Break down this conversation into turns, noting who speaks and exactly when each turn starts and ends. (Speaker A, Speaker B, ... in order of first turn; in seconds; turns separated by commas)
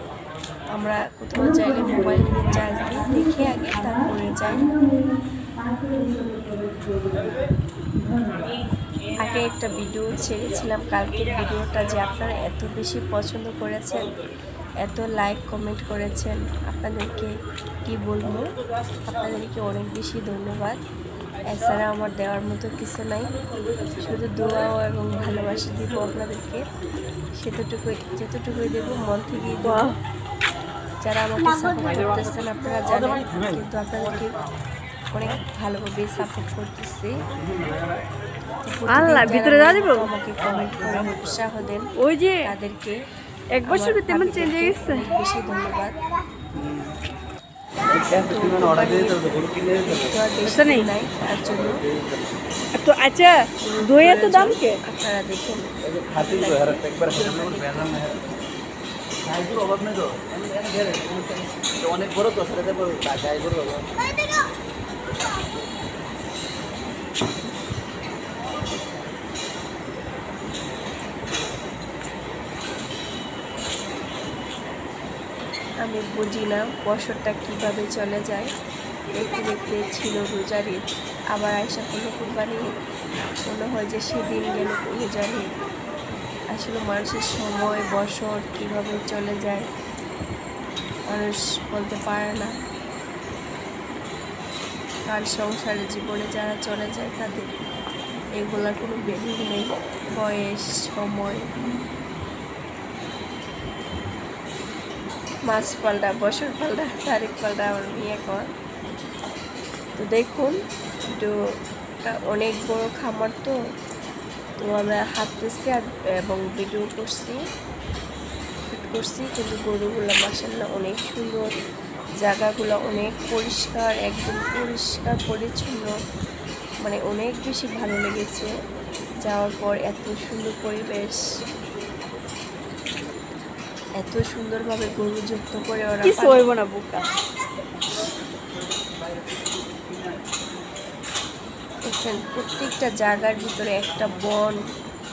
Speaker A: 0.8-4.7, Speaker A: 9.1-14.1, Speaker A: 14.8-17.3, Speaker A: 17.9-18.4, Speaker A: 19.0-20.8, Speaker A: 21.5-23.3, Speaker A: 24.0-26.6, Speaker A: 27.4-29.9, Speaker B: 29.6-29.9, Speaker A: 31.0-34.4, Speaker A: 35.1-37.2, Speaker C: 37.4-38.0, Speaker A: 38.6-41.9, Speaker B: 38.9-40.0, Speaker B: 42.0-42.5, Speaker A: 42.4-42.9, Speaker B: 43.5-45.0, Speaker A: 43.7-46.0, Speaker C: 46.5-46.9, Speaker C: 47.9-50.1, Speaker A: 48.3-51.8, Speaker B: 50.5-50.8, Speaker C: 51.9-52.3, Speaker B: 52.8-53.3, Speaker A: 53.6-58.3, Speaker B: 53.9-54.8, Speaker C: 55.9-58.2, Speaker C: 59.2-63.9, Speaker A: 75.8-78.5, Speaker A: 79.2-82.7, Speaker A: 83.5-85.5, Speaker A: 86.5-89.7, Speaker A: 91.1-92.5, Speaker A: 95.1-97.5, Speaker A: 98.4-101.4, Speaker A: 105.5-108.5, Speaker A: 110.0-110.5, Speaker A: 112.0-113.5, Speaker A: 114.6-117.4, Speaker A: 118.7-121.4, Speaker A: 122.2-125.9, Speaker A: 126.8-128.5, Speaker A: 129.2-131.2, Speaker A: 134.0-136.4, Speaker B: 136.0-137.0, Speaker C: 139.2-140.2, Speaker A: 141.9-144.6